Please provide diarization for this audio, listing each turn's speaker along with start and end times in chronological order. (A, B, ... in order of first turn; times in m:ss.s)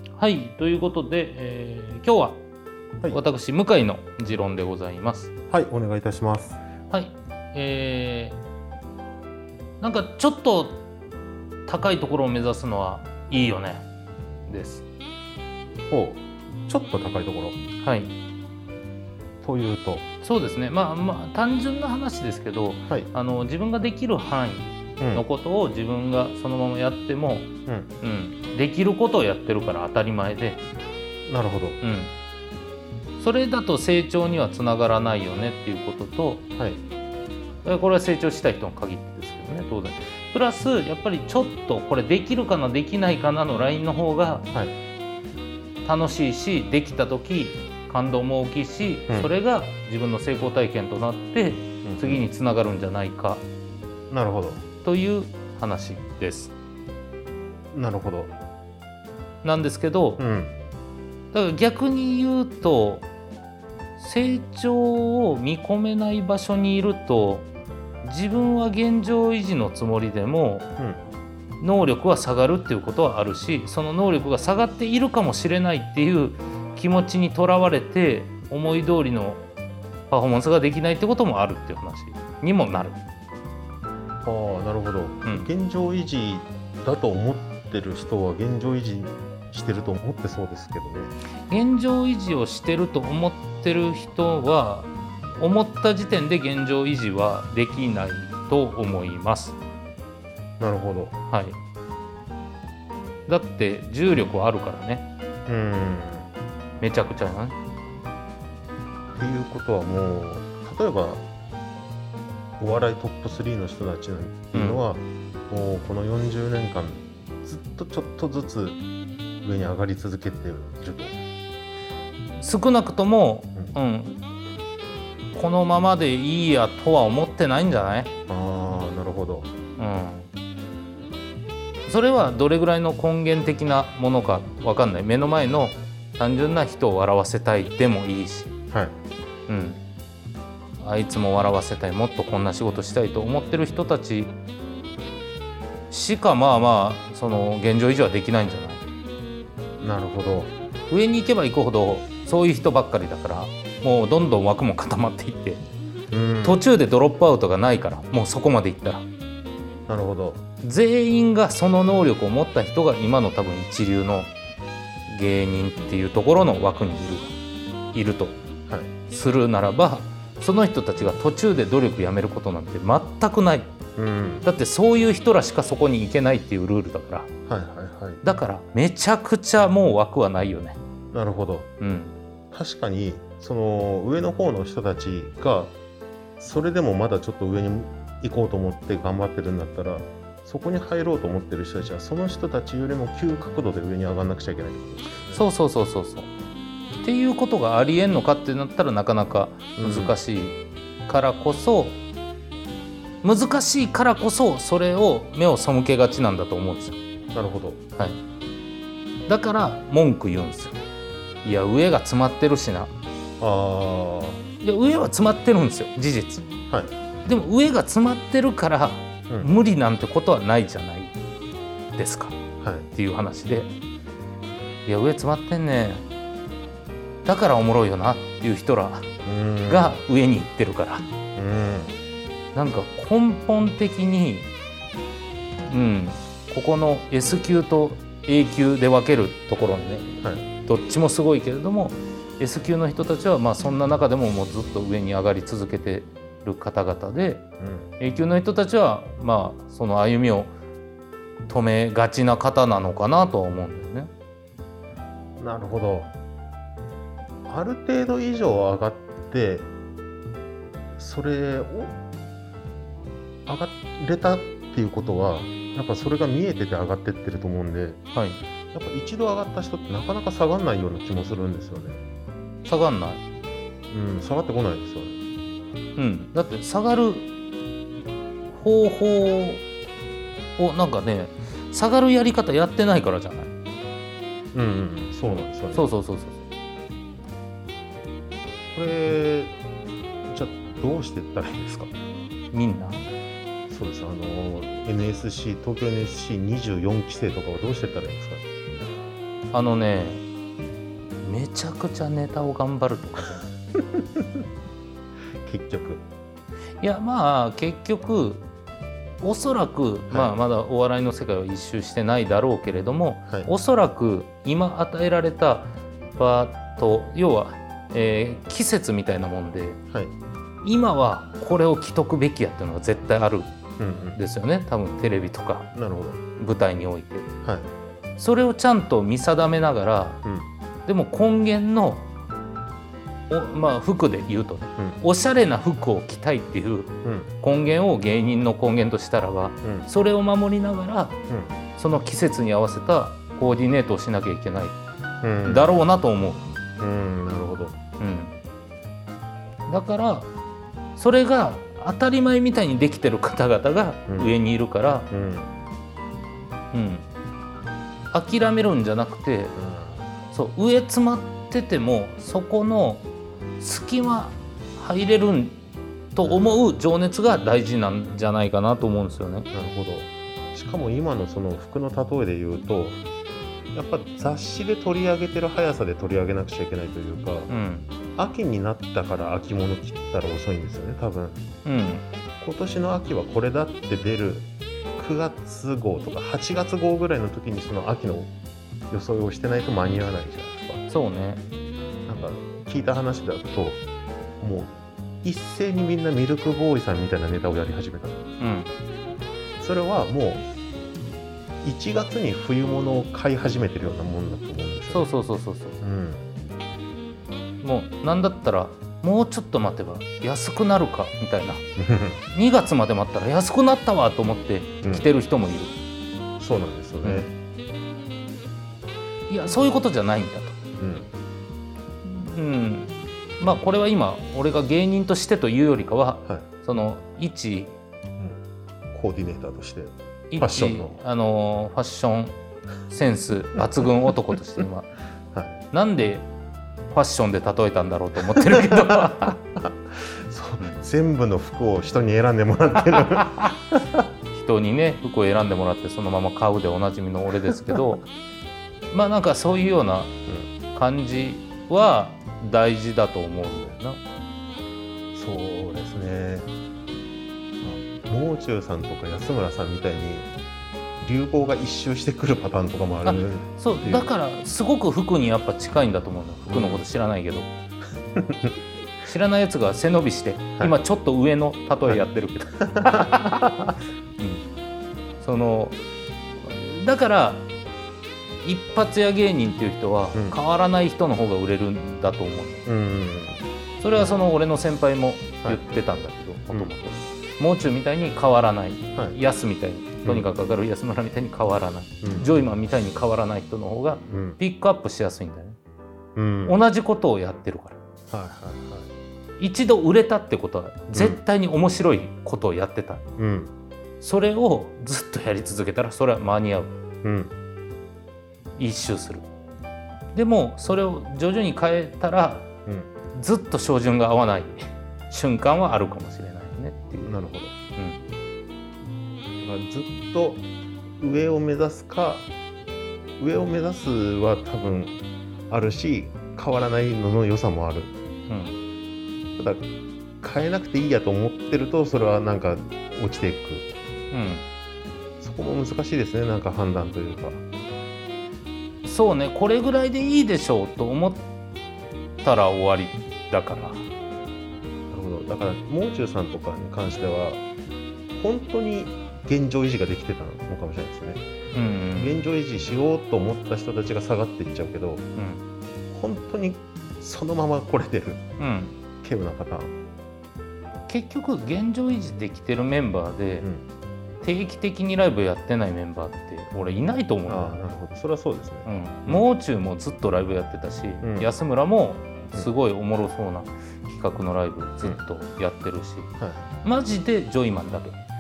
0:00.2-0:02.4 A
0:03.1-0:05.3 A
0:05.5-0:06.6 B
0:06.9-0:08.4 A
0:09.8-0:10.8 A
0:11.7-0:13.9 A
0:14.5-0:14.8 A
0:15.9-0:17.6 B
0:17.8-0:18.1 A
0:19.4-0:20.0 B
0:20.2-0:27.5 A
0:25.0-0:25.2 B
0:28.0-0:30.6 A
0:31.2-0:31.8 B
0:31.8-0:32.1 A
0:33.2-0:36.4 A
0:37.6-0:44.4 A
0:45.8-0:53.4 A
0:51.8-0:52.2 B
0:54.1-0:54.6 B
0:54.8-0:56.5 A
0:57.7-0:58.3 B
0:59.4-1:00.2 A
1:00.2-1:00.5 B
1:01.3-1:03.1 A
1:04.0-1:07.5 A
1:08.0-1:10.7 A
1:11.6-1:19.4 A
1:20.1-1:23.0 A
1:24.2-1:31.1 B
1:25.2-1:25.5 A
1:31.5-1:39.6 A
1:40.6-1:41.2 B
1:41.3-1:41.6 A
1:43.3-1:45.1 A
1:45.5-1:46.3 B
1:46.8-1:47.6 A
1:49.1-1:51.2 B
1:52.6-1:58.8 B
1:54.5-1:54.8 A
1:59.4-2:01.2 B
2:02.4-2:04.2 A
2:05.3-2:08.1 A
2:08.3-2:09.5 B
2:09.8-2:10.3 A
2:11.8-2:18.6 A
2:19.5-2:19.8 A
2:20.8-2:24.3 A
2:25.9-2:28.8 A
2:29.8-2:30.5 B
2:30.9-2:35.6 A
2:36.1-2:36.6 B
2:36.4-2:39.0 A
2:39.9-2:40.4 B
2:40.6-2:44.3 A
2:45.1-2:47.3 A
2:47.9-2:48.4 A
2:49.1-2:53.7 A
2:54.0-2:54.5 B
2:54.4-2:57.3 A
2:57.5-2:58.2 B
2:58.2-3:00.8 A
3:01.1-3:01.7 B
3:01.8-3:02.1 A
3:02.5-3:05.7 B
3:06.4-3:15.5 B
3:15.3-3:16.3 A
3:17.0-3:22.0 A
3:19.8-3:20.1 B
3:23.2-3:27.0 A
3:27.3-3:27.8 B
3:29.3-3:30.8 A
3:31.4-3:32.9 A
3:33.4-3:34.4 B
3:34.6-3:36.4 A
3:37.2-3:41.1 A
3:42.0-3:42.4 A
3:42.6-3:42.9 B
3:42.9-3:43.7 A
3:44.8-3:46.0 A
3:47.2-3:49.1 A
3:49.2-3:50.0 B
3:49.7-3:51.0 A
3:51.4-3:52.0 B
3:52.5-3:54.5 A
3:55.7-4:00.1 A
4:00.2-4:00.4 B
4:00.6-4:07.4 A
4:07.6-4:07.9 B
4:08.0-4:10.5 A
4:11.5-4:14.1 A
4:15.4-4:16.1 B
4:17.5-4:19.7 B
4:21.0-4:22.0 B
4:23.4-4:28.0 B
4:28.1-4:28.4 A
4:28.7-4:32.0 B
4:32.6-4:33.2 A
4:33.9-4:35.2 B
4:36.0-4:37.3 A
4:38.5-4:39.6 A
4:40.6-4:43.5 A
4:44.5-4:45.9 B
4:45.2-4:46.4 A
4:48.7-4:49.6 B
4:50.3-4:51.9 B
4:52.5-4:53.0 A
4:53.7-4:58.9 B
4:59.5-5:00.2 A
5:01.2-5:03.5 A
5:03.9-5:04.2 B
5:05.4-5:06.0 B
5:06.8-5:08.4 A
5:09.2-5:19.8 A
5:20.6-5:23.5 A
5:23.8-5:24.2 B
5:24.2-5:25.7 A
5:25.7-5:26.2 B
5:26.4-5:27.3 A
5:27.4-5:27.7 B
5:28.2-5:30.2 A
5:30.2-5:30.5 B
5:30.8-5:32.1 A
5:33.3-5:41.2 A
5:37.0-5:37.3 B
5:39.6-5:39.9 B
5:41.3-5:41.5 B
5:41.8-5:44.8 A
5:45.2-5:45.8 B
5:45.4-5:46.5 A
5:46.8-5:47.8 B
5:48.0-5:48.3 A
5:49.7-5:50.3 A
5:51.0-5:55.1 A
5:54.1-5:54.4 B
5:55.1-5:55.5 B
5:56.7-5:57.0 A
5:58.1-5:59.6 A
5:59.6-6:00.1 B
6:00.3-6:03.0 A
6:03.6-6:05.6 A
6:06.1-6:09.5 A
6:06.2-6:06.6 B
6:09.5-6:13.0 B
6:13.7-6:17.6 B
6:17.5-6:17.9 A
6:18.2-6:21.4 B
6:21.6-6:22.0 A
6:22.4-6:28.3 B
6:28.9-6:30.8 B
6:30.9-6:31.4 A
6:32.1-6:33.8 B
6:34.4-6:38.2 B
6:38.4-6:38.7 A
6:39.6-6:40.4 B
6:41.6-6:45.1 B
6:44.9-6:45.8 A
6:45.8-6:46.2 B
6:47.6-6:51.6 A
6:51.8-6:52.2 B
6:52.3-6:55.7 A
6:56.4-6:57.3 B
6:57.0-6:57.3 A
6:59.3-7:00.6 A
7:00.8-7:01.1 B
7:02.0-7:07.7 A
7:08.9-7:11.0 B
7:10.3-7:12.3 A
7:12.9-7:14.9 A
7:15.3-7:15.6 B
7:15.7-7:16.3 A
7:16.9-7:19.4 A
7:18.6-7:23.8 B
7:24.3-7:28.0 A
7:28.9-7:30.1 A
7:30.7-7:34.0 A
7:35.1-7:36.5 B
7:37.6-7:40.3 B
7:41.0-7:44.1 B
7:43.0-7:47.5 A
7:46.5-7:46.8 B
7:48.2-7:48.5 B
7:49.0-7:53.3 A
7:52.7-7:53.7 B
7:54.2-7:54.4 A
7:55.2-7:55.8 A
7:56.4-7:57.5 A
7:58.4-8:02.6 A
8:00.1-8:00.4 B
8:02.6-8:04.2 B
8:03.8-8:15.6 A
8:06.5-8:06.7 B
8:12.0-8:12.3 B
8:14.1-8:14.4 B
8:16.2-8:16.6 B
8:16.4-8:17.8 A
8:18.1-8:18.9 B
8:19.4-8:23.0 A
8:20.9-8:21.2 B
8:23.2-8:23.5 B
8:24.0-8:26.7 A
8:27.0-8:27.3 B
8:28.6-8:29.2 A
8:30.1-8:32.5 A
8:33.1-8:37.2 A
8:37.0-8:37.5 B
8:37.8-8:38.0 A
8:39.4-8:40.4 B
8:41.0-8:42.3 B
8:43.2-8:45.0 B
8:45.5-8:47.9 B
8:48.3-8:48.6 A
8:49.4-8:49.7 B
8:50.2-8:53.7 B
8:54.1-8:54.4 A
8:55.2-8:57.4 B
8:58.8-9:01.2 A
9:02.2-9:03.8 A
9:04.9-9:07.4 B
9:08.1-9:11.2 B
9:11.5-9:12.2 A
9:12.0-9:15.0 B
9:15.2-9:15.4 A
9:15.9-9:18.2 B
9:18.4-9:18.8 A
9:19.0-9:19.7 B
9:20.9-9:23.5 A
9:24.2-9:27.6 A
9:27.3-9:29.2 B
9:28.6-9:38.0 A
9:31.0-9:31.3 B
9:36.2-9:36.4 B